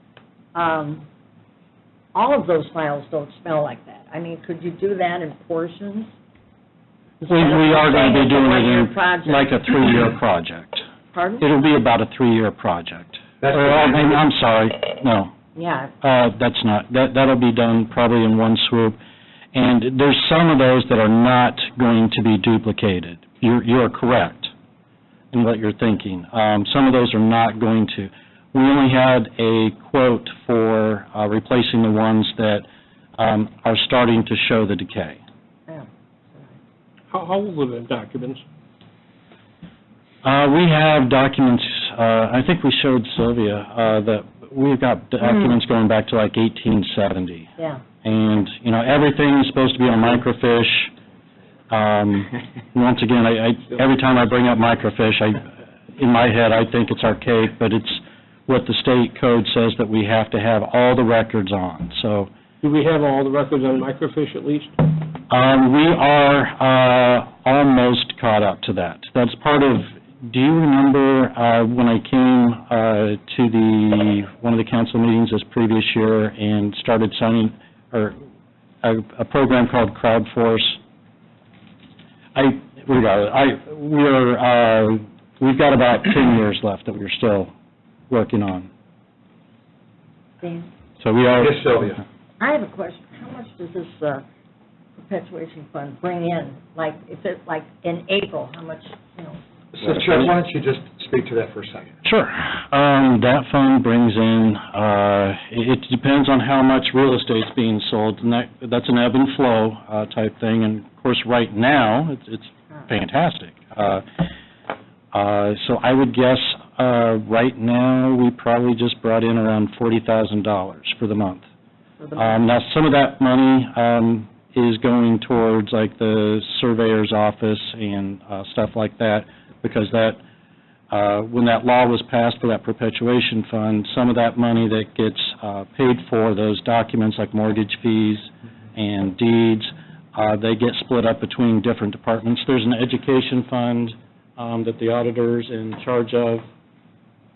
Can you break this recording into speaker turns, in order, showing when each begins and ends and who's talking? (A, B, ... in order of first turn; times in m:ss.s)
0:00.5-0:01.0 A
0:02.1-0:06.1 A
0:07.2-0:09.8 A
0:07.2-0:10.8 B
0:11.1-0:11.4 A
0:11.4-0:15.3 B
0:13.4-0:14.2 C
0:15.5-0:15.9 A
0:16.0-0:19.0 B
0:19.5-0:24.5 B
0:25.3-0:32.6 B
0:33.2-0:35.2 B
0:35.7-0:36.6 A
0:37.1-0:38.4 D
0:40.2-0:47.5 B
0:48.0-0:50.9 B
0:51.7-1:02.3 B
1:02.6-1:04.7 D
1:05.3-1:18.2 B
1:18.8-1:20.8 B
1:22.3-1:27.5 B
1:28.1-1:28.7 B
1:30.4-1:30.7 A
1:31.0-1:32.0 B
1:31.4-1:32.0 C
1:32.4-1:34.2 A
1:35.0-1:39.4 A
1:39.7-1:41.9 C
1:42.0-1:54.3 B
1:55.1-2:01.4 B
2:02.0-2:02.4 A
2:02.2-2:10.2 B
2:10.9-2:26.4 B